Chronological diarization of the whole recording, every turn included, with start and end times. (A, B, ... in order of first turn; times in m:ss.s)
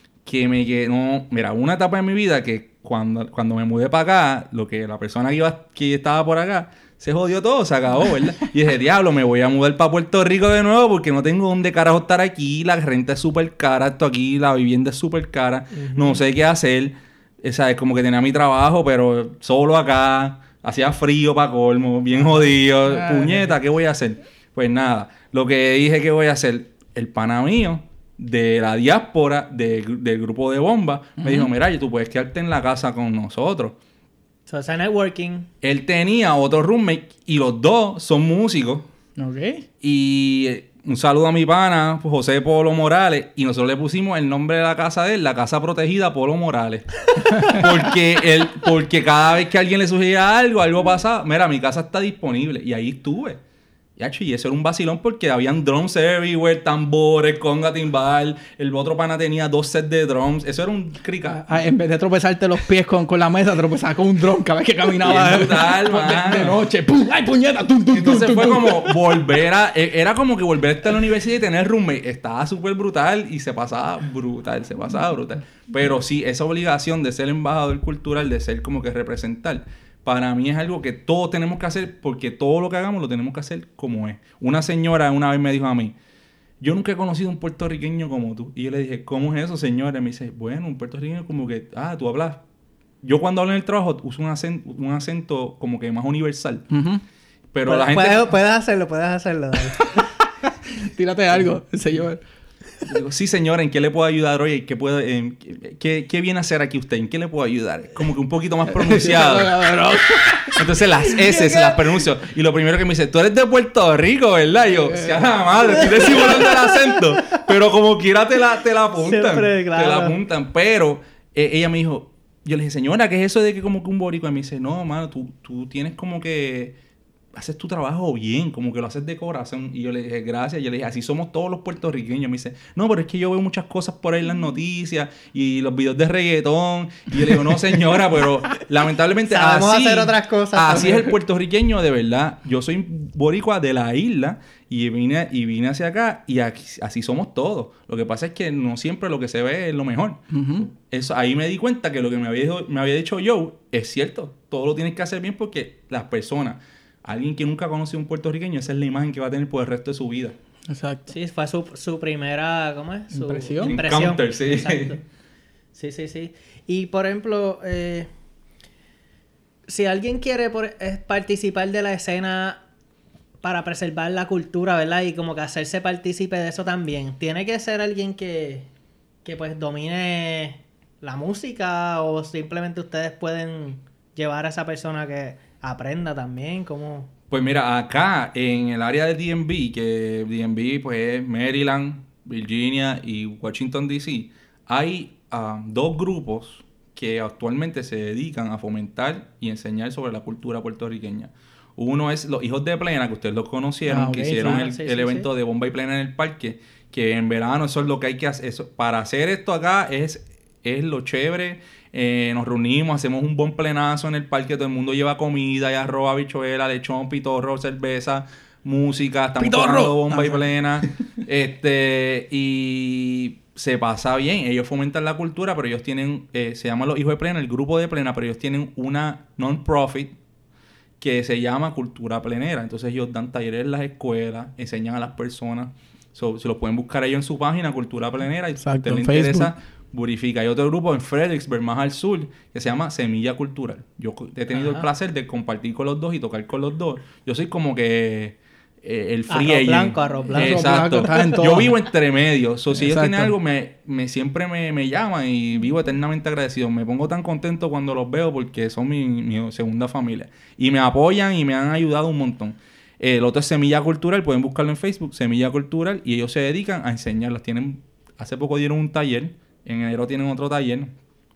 0:00.2-0:33.8 A
0:15.7-0:16.2 B
0:22.8-0:23.6 C
0:31.2-0:31.5 C
0:34.5-0:35.5 B
0:35.6-0:38.9 A
0:39.2-0:39.6 C
0:39.8-0:53.4 A
0:47.2-0:47.8 C
0:54.0-1:01.5 A
1:01.2-1:09.2 C
1:05.0-1:06.6 A
1:07.9-1:25.9 A
1:26.6-1:32.4 A
1:33.0-1:36.7 A
1:36.7-1:37.0 C
1:37.5-1:38.3 A
1:37.6-1:40.0 B
1:39.8-1:40.1 C
1:40.7-1:42.2 C
1:42.8-1:49.6 A
1:48.7-1:50.6 C
1:50.5-2:06.7 A
1:51.1-1:52.0 B
1:54.9-1:56.4 C
1:56.2-1:56.5 B
1:59.0-2:00.2 B
2:07.3-2:40.4 A
2:19.3-2:21.1 B
2:30.3-2:30.7 C
2:40.7-2:41.1 C
2:41.1-2:45.0 B
2:43.1-2:43.8 C
2:43.6-2:45.0 A
2:45.7-2:48.1 B
2:49.7-2:52.6 B
2:53.4-2:58.7 B
2:59.2-3:07.1 B
3:07.3-3:50.1 A
3:23.8-3:24.5 C
3:24.2-3:25.3 B
3:39.4-3:40.9 C
3:51.0-4:30.9 A
3:58.6-3:59.5 C
4:04.5-4:04.9 B
4:09.3-4:11.4 B
4:10.3-4:11.8 C
4:12.7-4:13.3 C